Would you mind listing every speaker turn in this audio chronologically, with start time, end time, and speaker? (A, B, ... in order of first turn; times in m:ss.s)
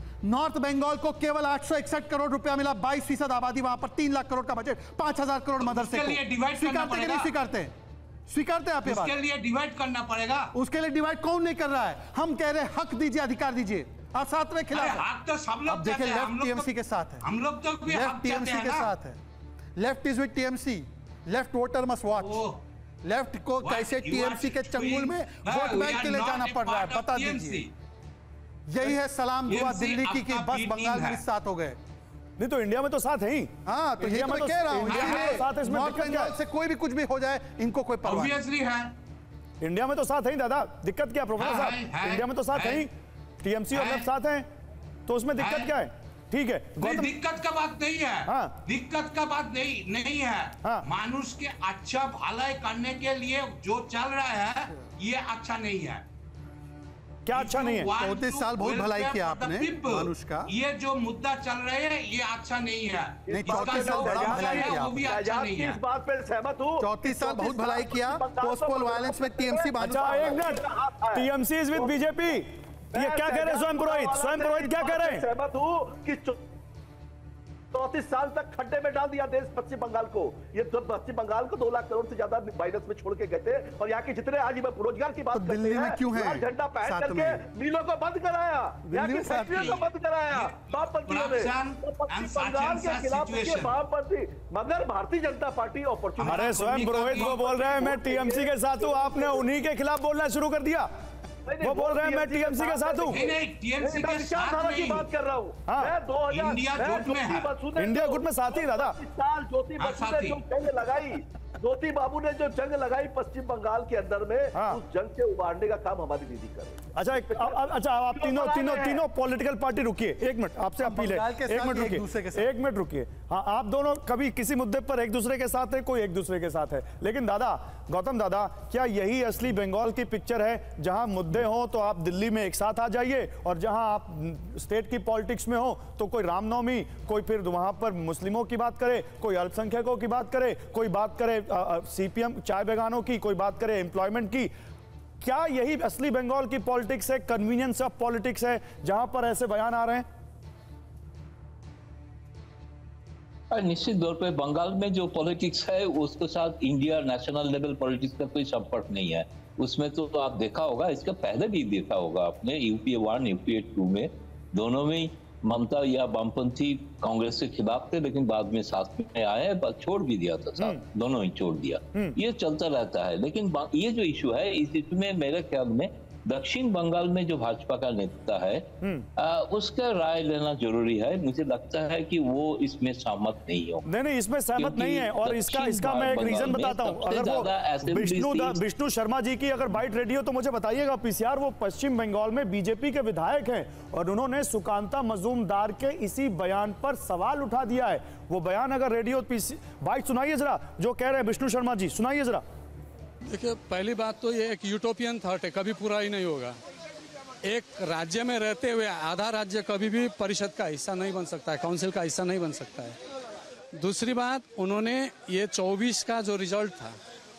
0:00.2-0:07.7 A
0:05.6-0:07.3 B
0:08.3-0:09.2 A
0:08.8-0:10.5 B
0:10.5-0:15.0 A
0:14.7-0:16.7 B
0:15.7-0:17.2 A
0:17.2-0:18.9 B
0:17.9-0:19.2 A
0:19.8-0:22.5 A
0:22.2-0:22.6 B
0:23.0-0:27.7 A
0:23.6-0:27.7 B
0:28.7-0:31.8 A
0:29.5-0:31.2 B
0:32.4-0:36.4 C
0:33.6-0:38.4 A
0:34.8-0:35.3 B
0:38.1-0:39.0 B
0:39.6-0:44.5 C
0:41.4-0:42.8 B
0:43.7-0:44.1 B
0:45.1-0:47.2 C
0:45.4-0:45.7 B
0:46.8-0:56.0 B
0:48.3-0:48.6 C
0:57.3-0:57.9 C
0:57.3-1:05.8 B
0:58.0-1:00.5 A
1:03.3-1:12.0 D
1:03.3-1:05.0 A
1:06.8-1:10.5 A
1:09.8-1:15.3 C
1:12.9-1:16.4 D
1:17.7-1:39.5 D
1:25.3-1:27.4 A
1:28.9-1:29.9 A
1:30.3-1:33.7 B
1:36.2-1:40.9 C
1:36.2-1:37.4 B
1:41.5-1:57.6 D
1:41.6-1:43.2 C
1:43.2-1:45.1 B
1:45.7-1:45.9 C
1:46.3-1:47.5 B
1:47.8-1:49.0 C
1:49.8-1:50.4 B
1:54.6-1:54.8 C
1:57.0-2:24.5 C
1:58.1-1:59.0 D
2:00.8-2:02.5 A
2:25.2-2:30.0 C
2:33.5-2:58.6 E
2:59.2-3:03.8 E
3:03.9-3:22.4 C
3:04.7-3:08.4 E
3:23.3-3:26.6 F
3:27.4-3:33.0 F
3:33.8-3:37.0 F